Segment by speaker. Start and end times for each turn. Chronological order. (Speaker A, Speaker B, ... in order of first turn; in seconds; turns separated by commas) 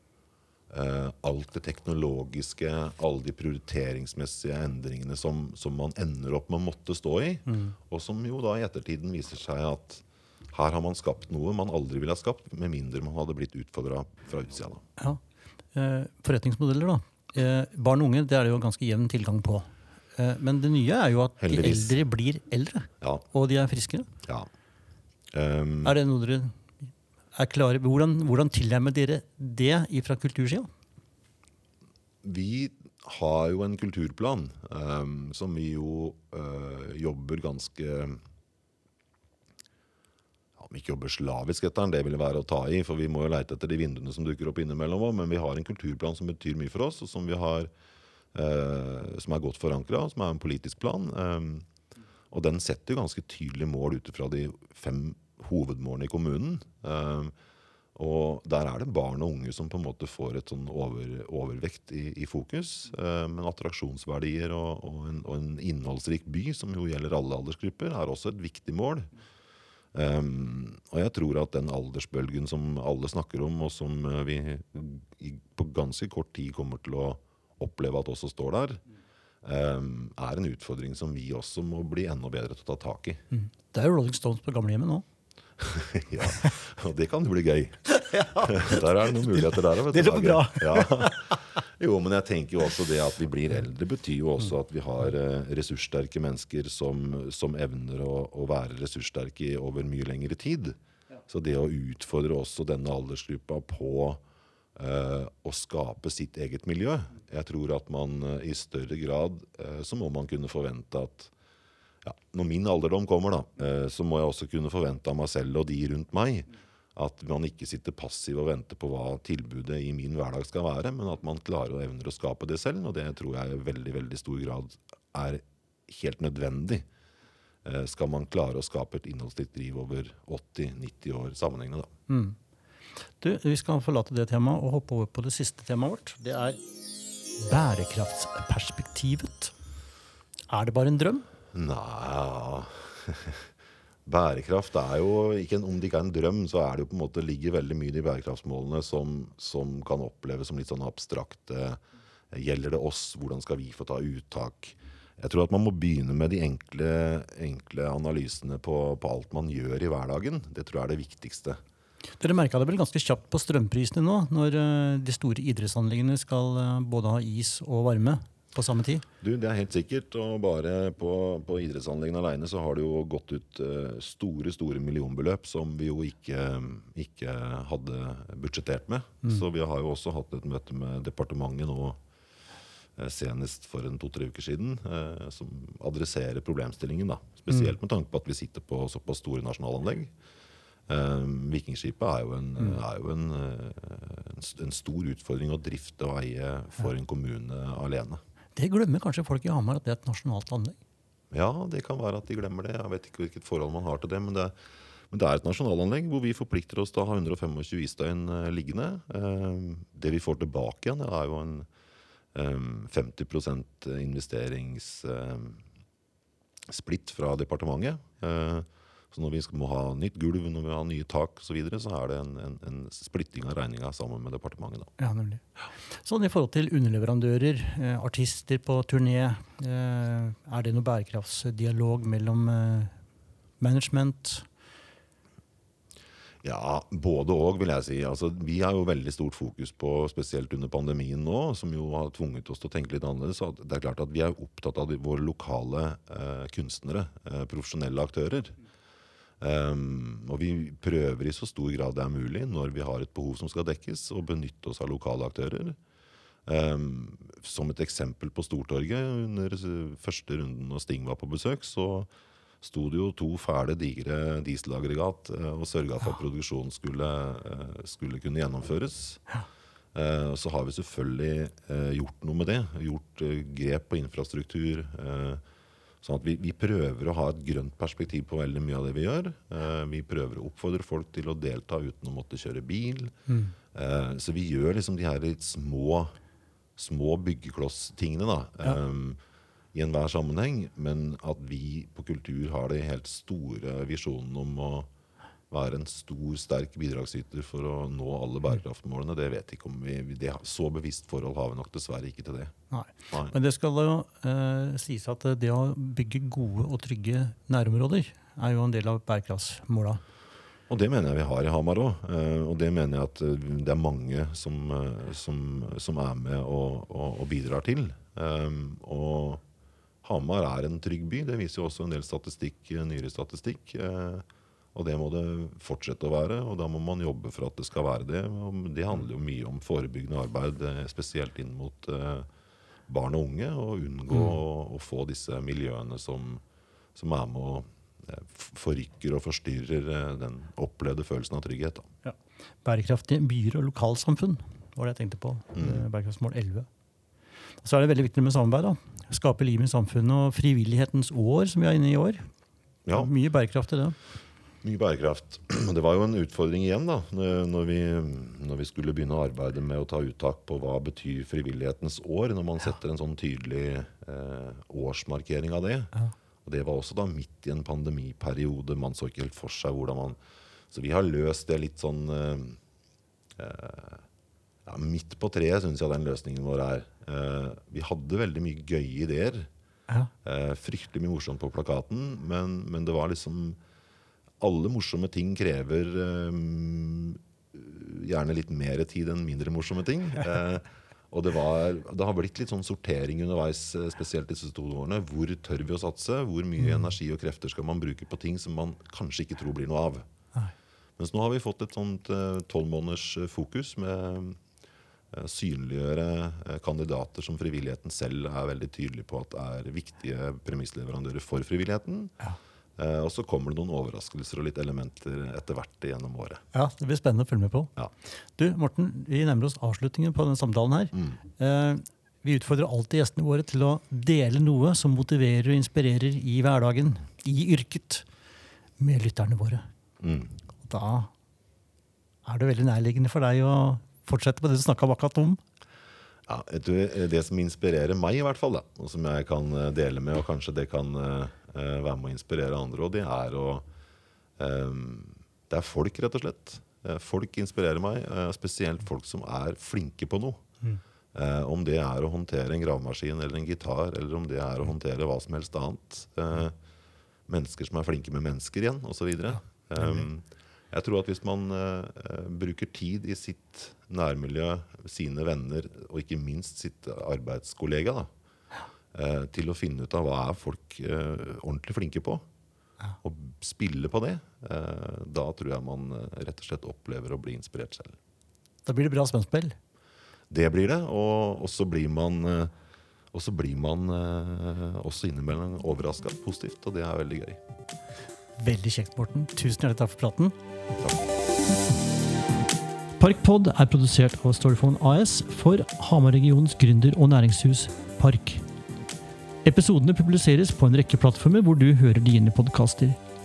Speaker A: 0.7-14.8, Speaker B: 7.5-7.8, Speaker B: 15.7-24.1, Speaker A: 21.4-22.0, Speaker A: 24.2-24.5, Speaker A: 25.3-26.0, Speaker B: 25.8-26.6, Speaker B: 27.3-30.7, Speaker A: 32.2-38.2, Speaker A: 40.6-47.7, Speaker A: 48.3-51.7, Speaker A: 52.3-57.3, Speaker A: 58.0-69.1, Speaker A: 69.9-78.8, Speaker A: 79.4-83.2, Speaker B: 83.3-85.0, Speaker A: 85.6-87.8, Speaker B: 87.9-91.4, Speaker A: 88.3-100.8, Speaker A: 101.3-104.2, Speaker A: 104.8-111.3, Speaker A: 112.0-126.9, Speaker A: 127.7-131.9, Speaker B: 132.1-132.4, Speaker B: 133.2-136.6, Speaker B: 137.4-139.5, Speaker B: 140.5-141.3, Speaker A: 141.5-143.5, Speaker A: 144.1-151.8, Speaker A: 152.3-161.6, Speaker B: 162.2-169.0, Speaker A: 169.2-182.0, Speaker A: 183.0-190.1, Speaker A: 190.9-198.2, Speaker B: 198.6-200.8, Speaker A: 201.3-204.6, Speaker A: 205.1-211.7, Speaker A: 212.3-215.6, Speaker A: 216.7-224.9, Speaker B: 225.0-225.4, Speaker B: 225.9-232.9, Speaker B: 233.6-234.5, Speaker A: 236.4-248.6, Speaker A: 249.4-255.8, Speaker A: 256.5-262.1, Speaker A: 262.6-269.2, Speaker A: 269.9-275.4, Speaker A: 276.0-283.1, Speaker B: 283.3-283.6, Speaker A: 283.7-286.1, Speaker A: 286.8-289.2, Speaker A: 289.7-294.9, Speaker A: 295.5-302.5, Speaker B: 302.7-310.0, Speaker A: 310.7-319.4, Speaker A: 320.0-332.3, Speaker A: 332.9-336.4, Speaker A: 337.0-341.9, Speaker B: 342.1-346.7, Speaker A: 345.6-345.8, Speaker B: 347.6-352.2, Speaker A: 352.9-353.1, Speaker B: 352.9-354.0, Speaker A: 354.6-365.9, Speaker A: 366.4-370.2, Speaker A: 370.7-372.6, Speaker A: 373.4-374.1, Speaker A: 374.7-379.5, Speaker A: 380.2-383.6, Speaker A: 384.4-400.1, Speaker B: 396.6-396.9, Speaker A: 401.0-404.4, Speaker A: 405.1-412.1, Speaker A: 412.8-416.4, Speaker B: 416.5-417.7, Speaker B: 418.4-428.1, Speaker B: 428.8-429.6, Speaker A: 430.0-430.4, Speaker B: 430.6-431.1, Speaker B: 432.2-435.4, Speaker A: 436.3-443.7, Speaker A: 444.4-450.4, Speaker A: 451.1-456.6, Speaker A: 457.3-468.1, Speaker B: 459.8-460.1, Speaker A: 468.9-472.2, Speaker A: 473.0-478.0, Speaker B: 478.6-479.6, Speaker A: 480.3-482.5, Speaker A: 483.1-487.4, Speaker B: 488.4-490.4, Speaker B: 493.0-498.4, Speaker B: 499.4-503.0